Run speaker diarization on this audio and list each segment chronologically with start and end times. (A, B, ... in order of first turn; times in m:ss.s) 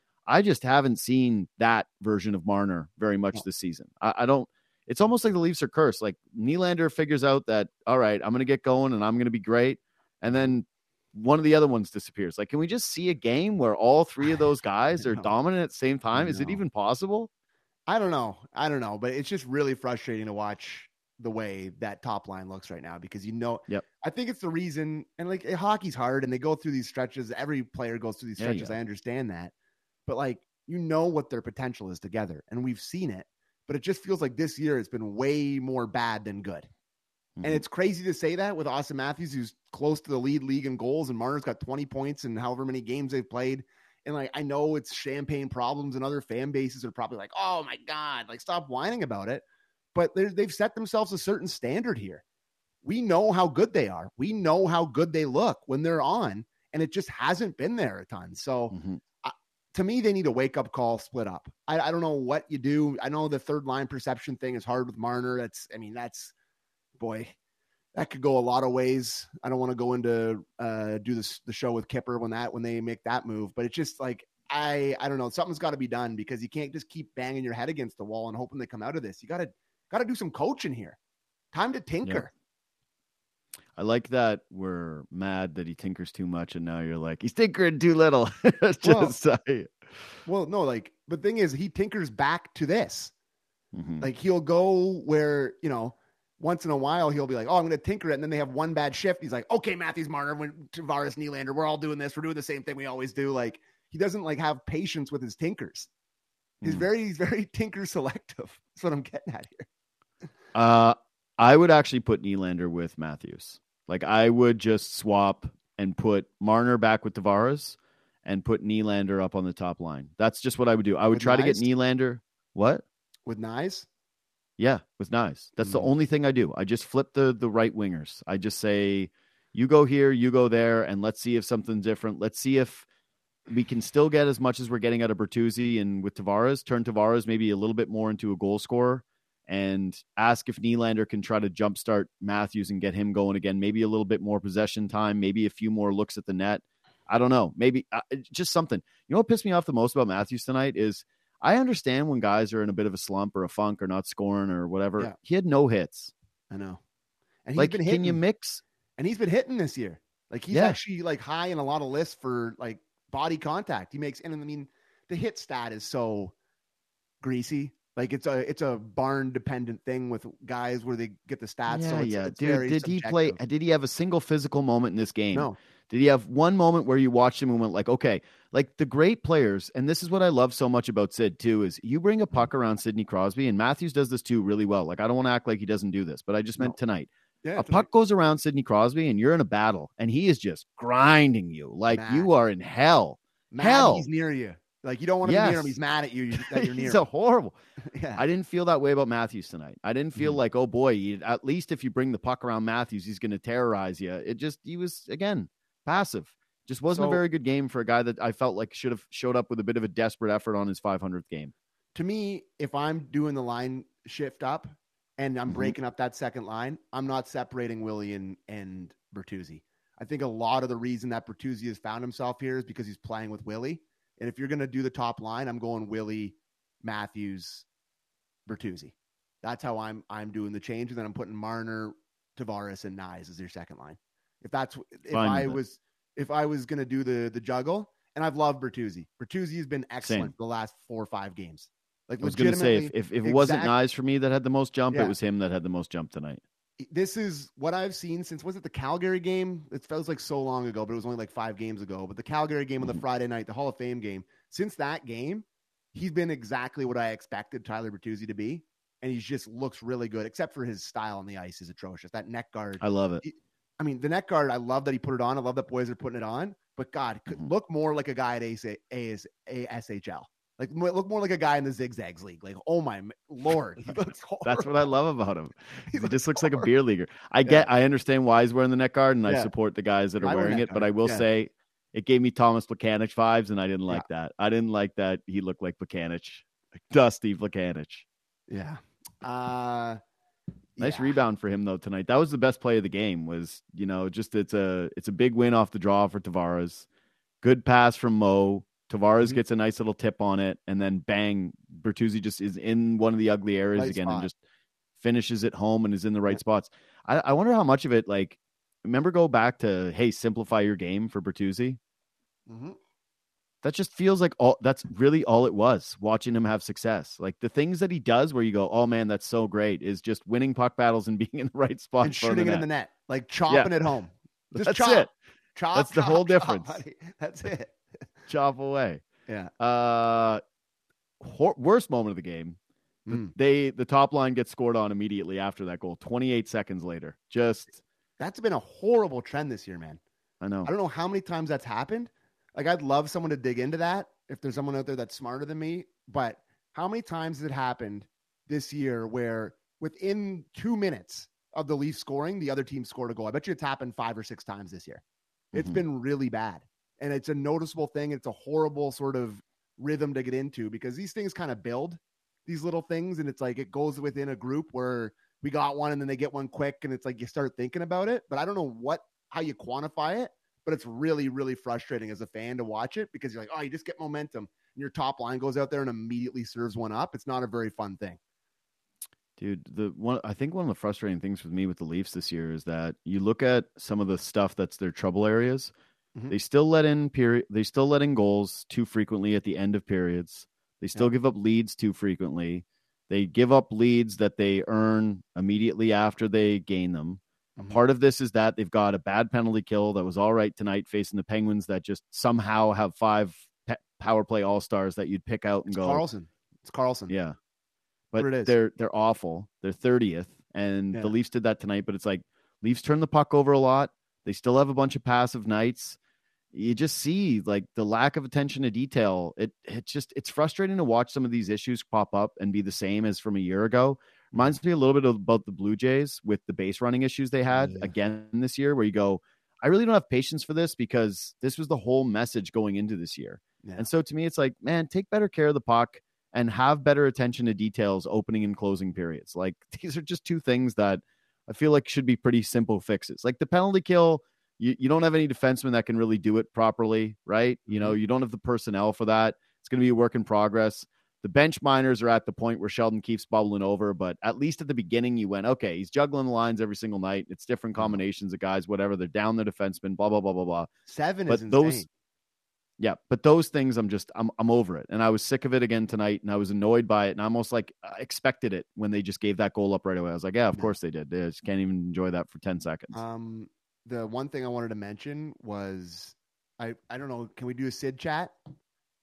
0:00.3-0:17.3 A
0:15.0-0:15.3 B
0:16.1-0:16.6 B
0:17.9-0:29.5 B
0:28.4-0:28.8 A
0:30.1-0:36.7 B
0:37.4-0:37.6 A
0:37.4-0:52.2 B
0:52.8-1:06.3 B
0:58.7-0:59.0 A
1:07.0-1:07.3 B
1:07.9-1:21.0 B
1:21.5-1:22.3 B
1:23.8-1:30.0 A
1:28.8-1:29.1 B
1:30.3-1:33.1 B
1:33.7-1:34.1 A
1:34.0-1:45.9 B
1:46.6-1:46.9 A
1:46.6-1:49.7 B
1:50.6-2:02.8 A
2:01.1-2:01.7 B
2:03.3-2:03.9 B
2:04.6-2:12.9 A
2:05.6-2:05.9 B
2:13.5-2:36.1 A
2:36.5-2:36.8 B
2:37.5-2:38.2 B
2:37.6-2:38.6 A
2:39.0-2:46.4 B
2:40.5-2:40.8 A
2:47.2-2:53.4 B
2:51.7-3:14.1 A
3:07.4-3:07.9 B
3:11.9-3:12.3 B
3:13.5-3:17.0 B
3:15.2-3:15.8 A
3:16.3-3:17.6 A
3:17.9-3:18.2 B
3:18.2-3:31.5 A
3:26.9-3:27.2 B
3:32.0-3:47.7 B
3:35.5-3:35.7 A
3:48.5-4:03.7 B
3:55.1-3:55.6 A
4:00.0-4:00.3 A
4:02.2-4:06.4 A
4:06.8-4:34.8 B
4:22.8-4:23.2 A
4:34.4-4:48.1 A
4:35.9-4:36.7 B
4:40.2-4:41.2 B
4:48.5-4:50.0 B
4:50.8-4:51.2 B
4:50.8-4:56.9 A
4:57.4-5:04.4 A
5:03.8-5:04.3 B
5:05.0-5:11.8 A
5:12.5-5:12.8 B
5:13.6-5:22.7 A
5:22.0-5:27.8 B
5:24.5-5:25.1 A
5:25.7-5:26.8 A
5:28.3-5:29.0 A
5:29.3-5:29.5 B
5:29.6-5:30.4 A
5:31.2-5:32.6 A
5:33.1-5:33.3 B
5:33.1-5:37.8 A
5:38.2-5:40.0 B
5:40.4-5:40.7 A
5:40.6-5:55.0 B
5:55.5-5:55.8 A
5:55.6-6:18.2 B
6:19.4-6:25.7 A
6:26.3-6:46.0 A
6:45.7-6:47.2 B
6:47.1-6:47.4 A
6:48.1-6:56.0 A
6:48.2-6:48.5 B
6:56.5-7:40.7 A
7:07.5-7:07.9 B
7:13.6-7:13.9 B
7:27.7-7:28.0 B
7:40.9-7:41.9 B
7:41.3-7:41.9 A
7:42.8-7:53.0 A
7:52.9-7:58.4 B